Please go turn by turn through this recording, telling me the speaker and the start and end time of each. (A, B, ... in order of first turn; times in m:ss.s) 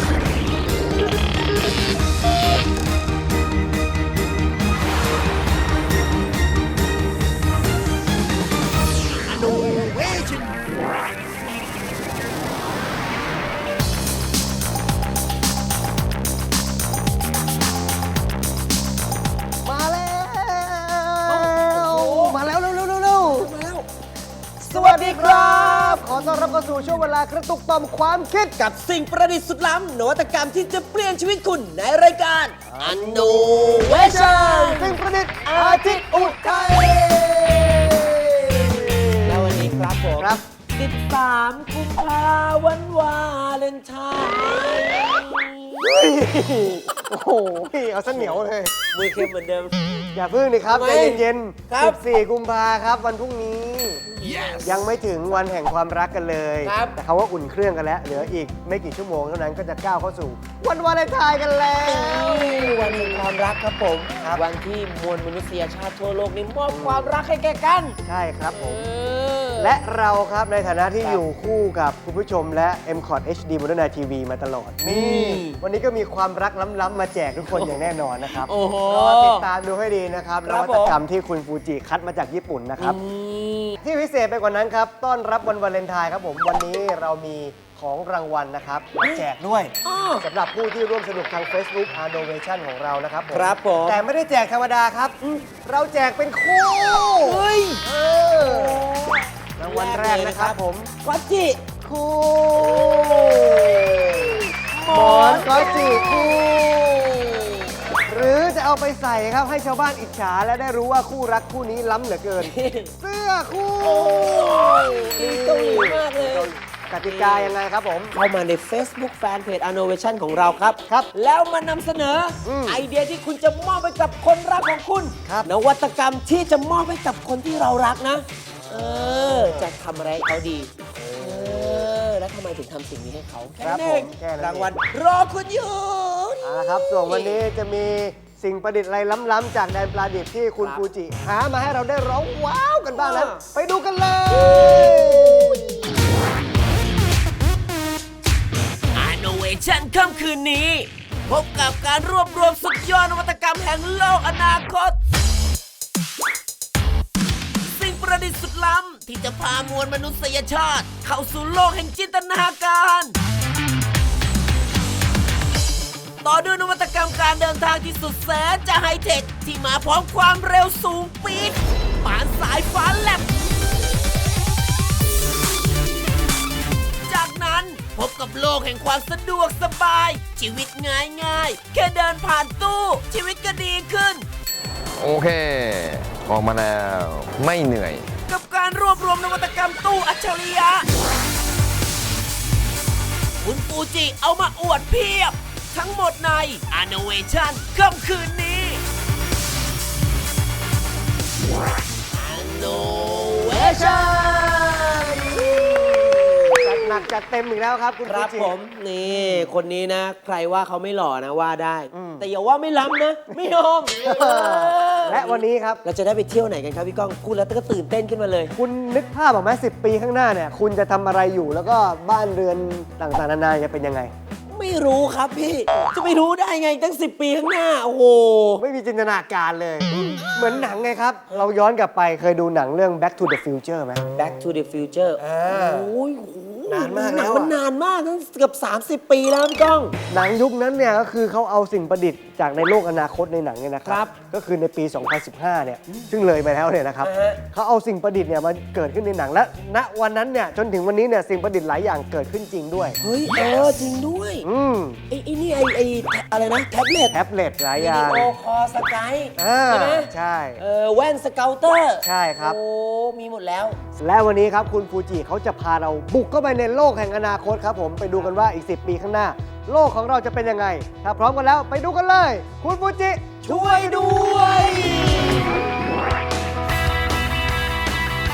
0:09.3-0:10.6 A
0:19.6-0:23.5 B
0:21.2-0:22.4 A
0:23.2-0:23.9 A
0:24.6-0:27.1 A
0:24.6-0:28.6 B
0:28.5-0:38.0 A
0:32.7-0:40.4 B
0:39.2-0:45.9 A
0:45.8-0:48.7 B
0:48.0-0:49.8 A
0:50.1-0:54.0 B
0:50.7-0:52.2 A
0:54.1-0:55.0 A
0:54.6-1:03.0 B
0:56.6-0:57.0 A
1:01.8-1:08.0 A
1:06.7-1:07.1 B
1:08.0-1:08.9 B
1:08.5-1:09.8 A
1:09.6-1:23.0 B
1:11.0-1:11.2 A
1:14.8-1:15.6 A
1:17.4-1:19.5 A
1:20.4-1:21.0 A
1:22.8-1:23.8 A
1:23.8-1:37.4 B
1:29.0-1:29.3 A
1:29.8-1:30.3 A
1:33.3-1:34.0 A
1:35.2-1:35.5 A
1:37.2-1:41.6 A
1:38.0-1:38.8 B
1:39.6-1:40.9 B
1:41.8-1:46.4 B
1:44.3-1:47.7 A
1:48.1-1:58.1 B
1:52.4-1:52.9 A
1:53.8-1:57.6 A
1:58.1-2:17.4 A
2:02.4-2:02.8 B
2:05.2-2:05.5 B
2:08.7-2:09.7 B
2:11.0-2:11.9 B
2:13.6-2:14.8 B
2:16.4-2:25.8 B
2:20.6-2:20.9 A
2:22.9-2:23.4 A
2:24.3-2:25.8 A
2:28.9-2:35.0 A
2:37.6-2:43.2 A
2:46.2-2:53.3 A
2:57.1-3:04.3 A
3:05.0-3:08.1 C
3:08.2-3:10.9 A
3:13.4-3:18.8 A
3:22.1-3:27.1 A
3:26.5-3:28.6 B
3:28.0-3:38.5 A
3:29.2-3:29.5 B
3:31.9-3:32.2 B
3:34.0-3:35.8 B
3:38.5-3:44.1 B
3:44.5-3:48.6 A
3:48.6-3:54.0 B
3:54.1-4:00.0 A
3:55.2-3:55.9 B
3:56.7-3:57.5 B
4:00.1-4:13.0 B
4:03.8-4:04.2 A
4:07.0-4:07.4 A
4:13.0-4:14.5 A
4:14.4-4:15.0 B
4:15.1-4:17.2 A
4:17.1-4:18.3 B
4:17.7-4:23.8 A
4:19.4-4:20.6 B
4:22.0-4:22.6 B
4:24.0-4:34.9 B
4:33.4-4:35.5 A